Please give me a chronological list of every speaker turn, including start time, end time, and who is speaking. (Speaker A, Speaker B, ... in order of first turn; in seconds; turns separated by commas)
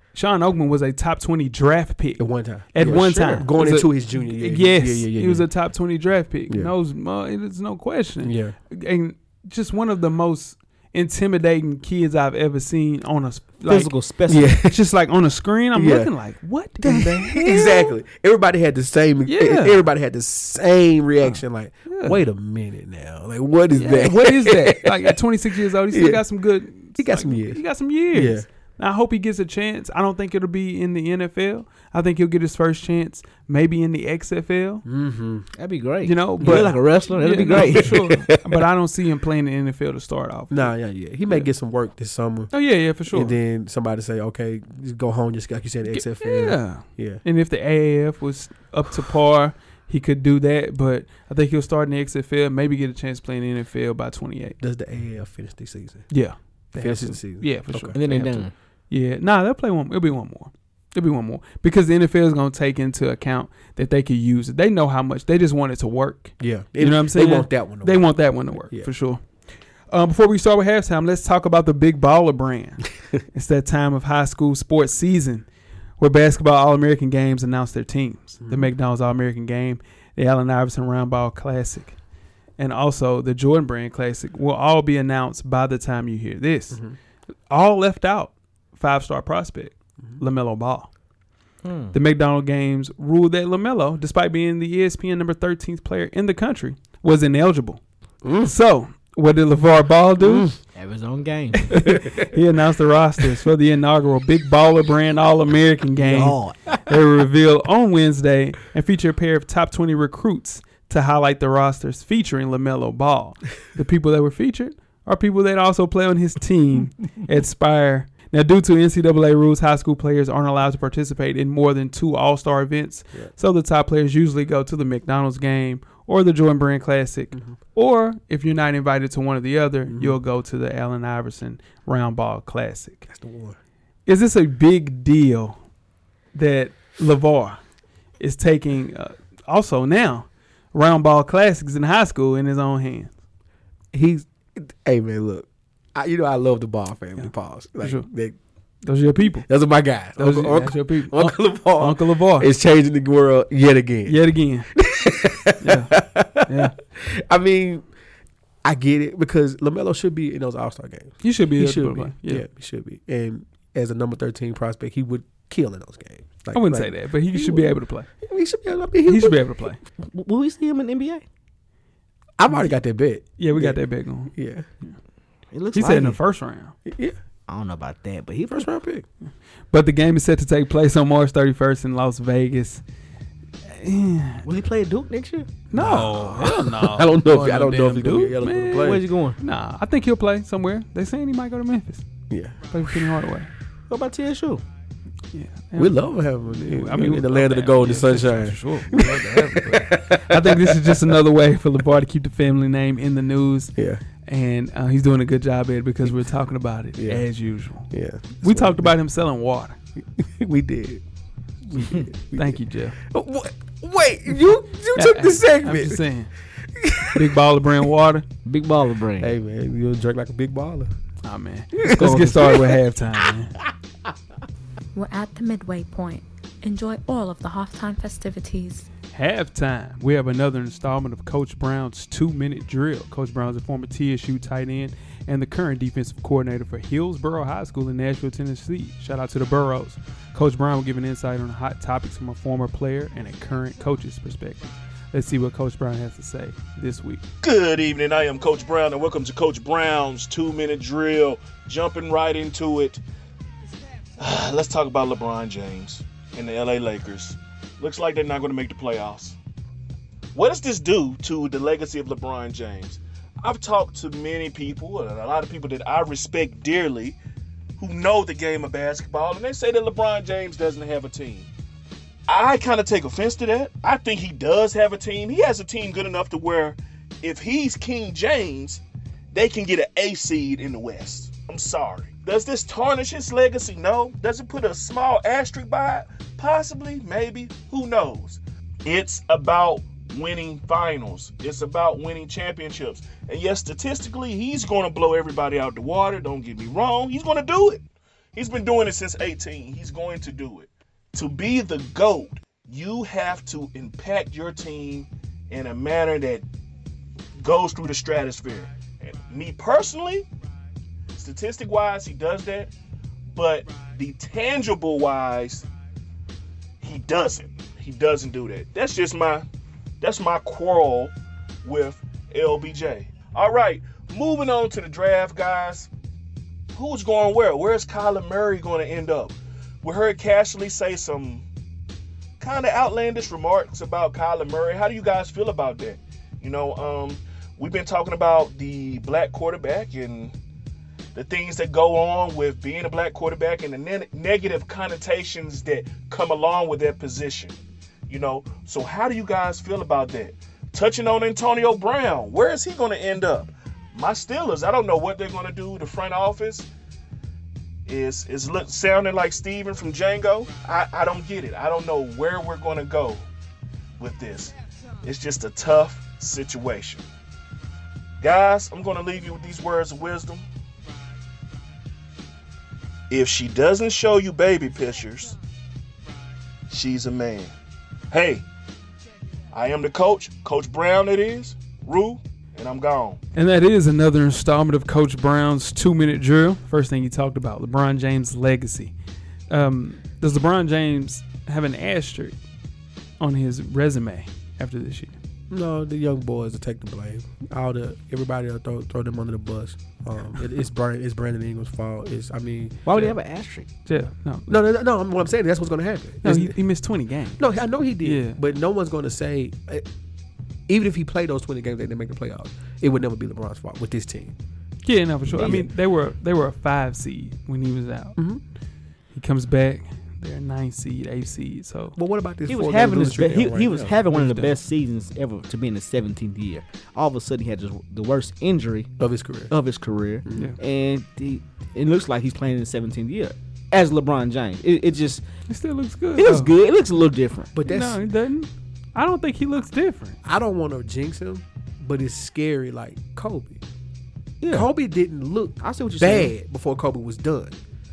Speaker A: 0.1-13.9, Speaker B: 2.2-5.5, Speaker C: 2.8-3.4, Speaker B: 8.2-8.6, Speaker C: 13.7-14.6, Speaker B: 14.3-14.8, Speaker A: 14.6-17.9, Speaker B: 15.8-16.1, Speaker B: 16.8-25.2, Speaker A: 19.3-19.8, Speaker A: 21.2-22.2, Speaker A: 23.7-34.9, Speaker B: 25.9-26.2, Speaker B: 26.9-28.5, Speaker B: 34.9-35.5, Speaker C: 35.6-38.4, Speaker A: 36.0-40.7, Speaker B: 36.4-36.7, Speaker B: 40.5-42.5, Speaker A: 42.5-43.4, Speaker B: 43.1-47.2, Speaker A: 45.9-54.6, Speaker B: 54.6-56.1, Speaker A: 56.1-69.2, Speaker B: 56.8-58.0, Speaker C: 57.9-58.5, Speaker B: 66.4-68.0, Speaker A: 69.9-75.5, Speaker A: 76.0-82.0, Speaker B: 78.4-78.7, Speaker A: 82.6-86.8, Speaker A: 87.5-90.9, Speaker C: 91.6-92.0, Speaker A: 91.9-97.8, Speaker B: 98.2-98.5, Speaker A: 98.4-100.5, Speaker B: 100.2-100.6, Speaker C: 100.8-101.9, Speaker A: 101.6-133.1, Speaker B: 101.8-102.3, Speaker C: 106.0-106.7, Speaker B: 129.9-130.2, Speaker B: 133.1-133.6, Speaker A: 134.1-135.6, Speaker A: 136.3-137.6, Speaker A: 138.2-143.1, Speaker B: 143.9-148.4, Speaker A: 147.8-148.1, Speaker A: 148.8-149.5, Speaker B: 149.4-154.2, Speaker A: 150.2-152.5, Speaker A: 154.1-154.7, Speaker B: 154.7-157.9, Speaker A: 155.6-155.9, Speaker A: 156.5-156.8, Speaker B: 158.6-169.5, Speaker A: 161.2-162.4, Speaker A: 166.5-168.1, Speaker A: 169.1-169.8, Speaker C: 170.1-171.2, Speaker B: 172.4-173.8, Speaker A: 173.4-174.3, Speaker B: 174.3-174.7, Speaker C: 175.5-176.2, Speaker A: 175.7-176.7, Speaker B: 176.8-177.2, Speaker C: 177.5-178.7, Speaker B: 178.5-179.1, Speaker A: 179.7-182.8, Speaker A: 183.7-184.4, Speaker C: 184.4-185.5, Speaker A: 185.7-192.0, Speaker B: 185.7-189.0, Speaker C: 188.8-189.4, Speaker B: 192.3-193.1, Speaker A: 192.7-193.5, Speaker C: 193.9-194.6, Speaker A: 195.3-203.7, Speaker B: 195.8-201.2, Speaker B: 203.8-204.0, Speaker A: 204.2-209.8, Speaker B: 207.0-207.3, Speaker B: 207.9-208.9, Speaker B: 210.2-211.0, Speaker B: 211.7-216.0, Speaker A: 211.8-213.0, Speaker A: 214.9-216.3, Speaker B: 216.8-217.4, Speaker A: 217.1-218.2, Speaker C: 218.4-219.3, Speaker B: 219.2-220.9, Speaker A: 221.2-223.5, Speaker B: 221.8-222.8, Speaker C: 221.9-222.6, Speaker D: 224.9-228.9, Speaker A: 229.1-247.2, Speaker E: 247.4-253.0, Speaker E: 254.2-259.4, Speaker E: 260.3-267.2, Speaker E: 267.8-271.5, Speaker E: 272.3-306.4, Speaker E: 307.4-310.2, Speaker E: 311.1-312.7, Speaker E: 313.3-315.6, Speaker E: 316.8-319.5, Speaker E: 320.0-321.1, Speaker E: 321.6-325.9, Speaker E: 326.7-331.4, Speaker E: 332.4-340.3, Speaker E: 341.1-347.5, Speaker E: 348.1-356.7, Speaker E: 357.9-363.2, Speaker E: 364.0-367.0, Speaker E: 368.2-370.4, Speaker E: 373.1-375.4, Speaker E: 376.7-377.5, Speaker E: 378.1-378.4, Speaker E: 379.5-383.2, Speaker A: 383.4-388.9, Speaker A: 389.5-392.4, Speaker A: 393.2-395.1, Speaker B: 395.5-403.1, Speaker C: 402.9-403.7, Speaker A: 403.9-404.5, Speaker B: 404.5-406.6, Speaker A: 406.2-407.4, Speaker B: 407.4-409.9, Speaker A: 408.0-408.4, Speaker B: 410.7-414.4, Speaker A: 414.9-418.2, Speaker B: 415.3-415.6, Speaker C: 415.3-415.6, Speaker A: 419.1-422.0, Speaker B: 422.0-423.9, Speaker C: 422.5-428.9, Speaker A: 424.1-424.6, Speaker B: 429.0-429.5, Speaker C: 429.5-435.2, Speaker B: 430.2-430.5, Speaker A: 435.5-436.5, Speaker C: 436.1-437.5, Speaker B: 437.5-438.0, Speaker A: 437.6-440.2, Speaker B: 440.2-443.6, Speaker C: 444.4-444.7, Speaker B: 444.5-447.6, Speaker C: 445.6-446.3